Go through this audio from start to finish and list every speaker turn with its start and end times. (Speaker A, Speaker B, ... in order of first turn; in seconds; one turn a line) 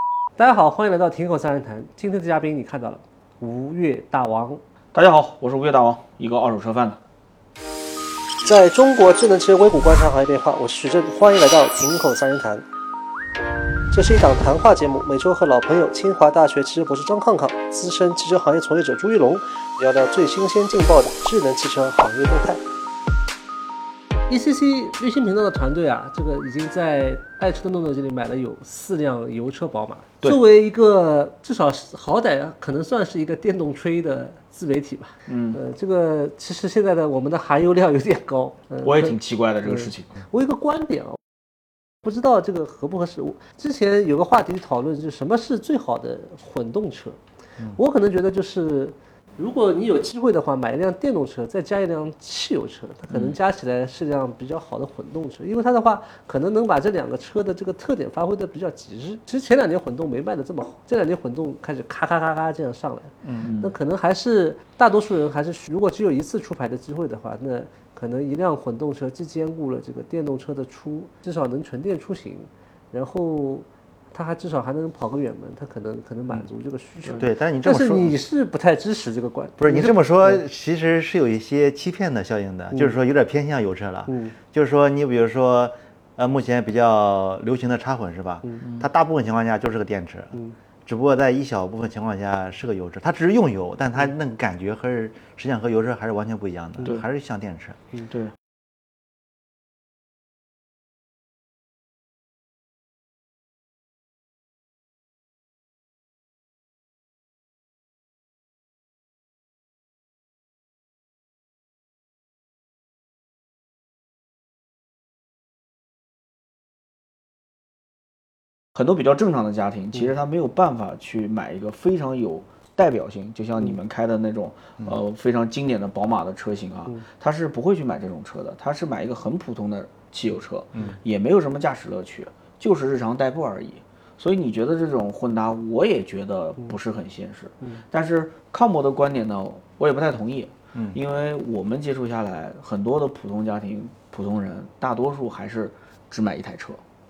Speaker A: 0.4-4.6
Speaker B: 4.9-7.0
Speaker A: 8.4-12.6
Speaker A: 13.9-22.6
Speaker A: 24.3-39.2
Speaker B: 35.3-35.6
Speaker B: 38.8-40.1
Speaker A: 39.7-41.2
Speaker A: 42.0-47.2
Speaker A: 47.8-80.4
Speaker B: 53.1-53.4
Speaker B: 63.2-63.7
Speaker C: 77.2-78.2
Speaker C: 79.6-97.8
Speaker A: 84.1-84.4
Speaker B: 98.0-98.3
Speaker B: 118.7-146.8
Speaker C: 140.7-141.0